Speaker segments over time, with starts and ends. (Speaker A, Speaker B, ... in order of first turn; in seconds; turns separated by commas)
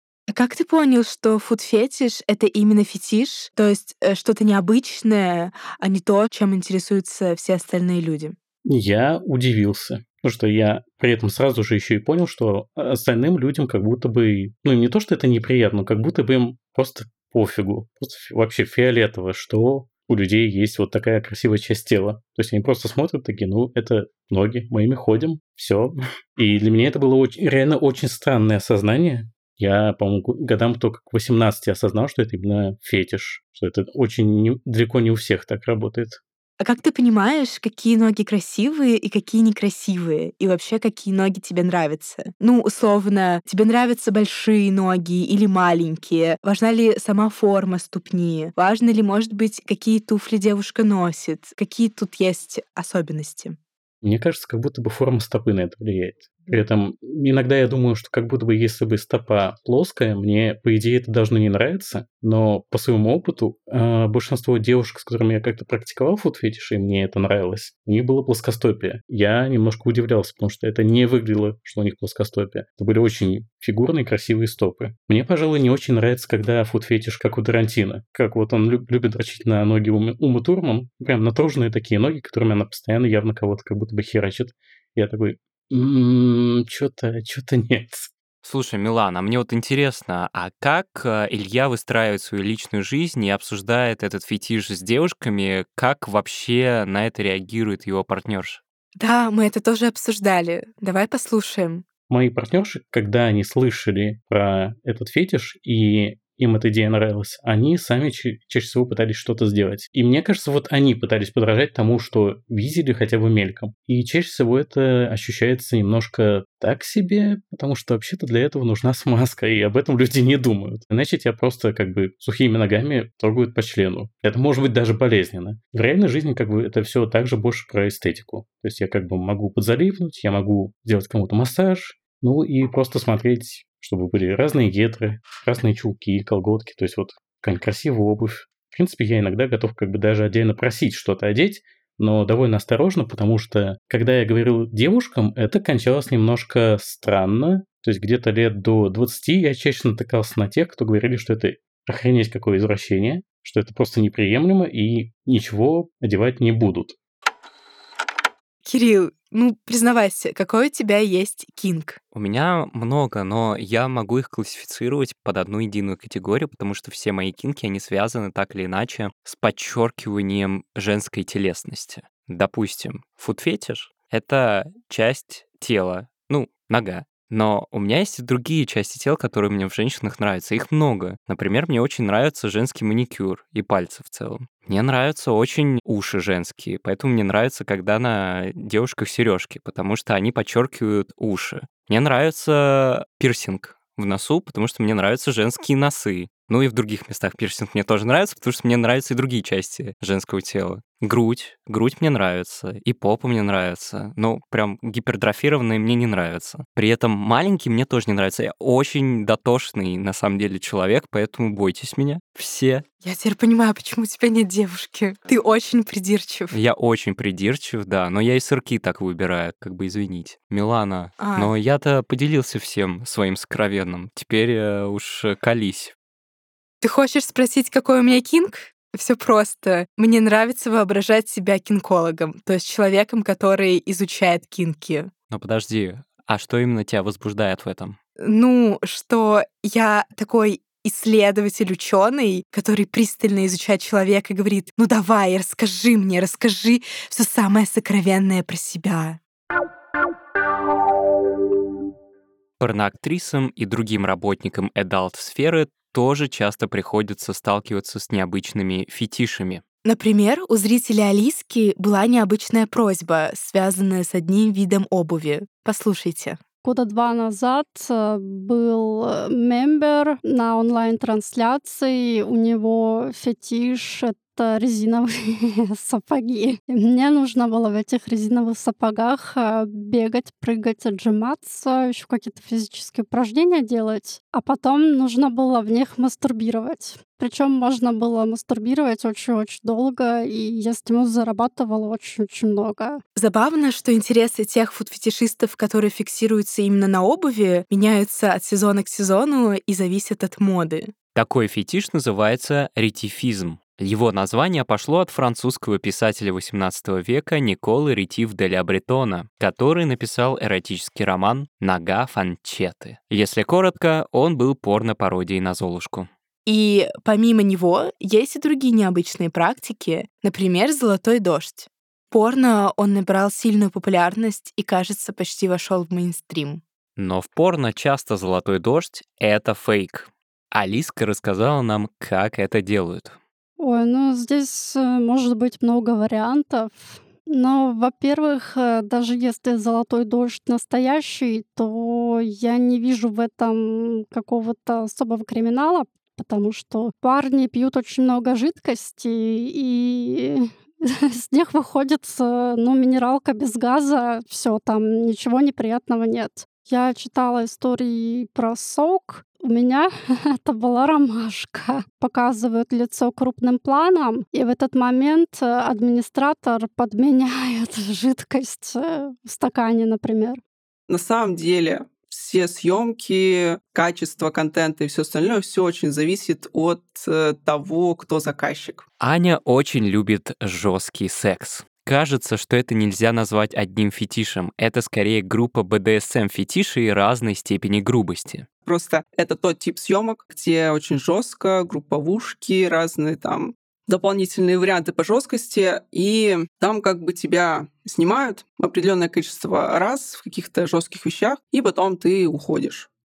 Speaker A: 0.3-8.3, Speaker B: 8.7-36.2, Speaker A: 36.6-53.6, Speaker B: 54.0-88.1, Speaker C: 88.4-98.6, Speaker A: 99.0-101.8, Speaker B: 102.1-157.0, Speaker A: 158.7-162.0, Speaker C: 162.1-212.8, Speaker A: 213.0-216.6, Speaker C: 216.5-225.9, Speaker A: 221.2-221.5, Speaker A: 226.8-235.1, Speaker C: 235.3-238.0, Speaker A: 238.2-249.2, Speaker C: 252.6-259.6, Speaker A: 259.9-266.4, Speaker D: 266.6-293.0, Speaker A: 293.2-300.9, Speaker C: 301.1-316.1, Speaker A: 316.5-326.6, Speaker C: 327.0-333.2, Speaker D: 333.6-370.4, Speaker E: 370.9-378.9, Speaker C: 379.0-388.5, Speaker E: 388.6-402.9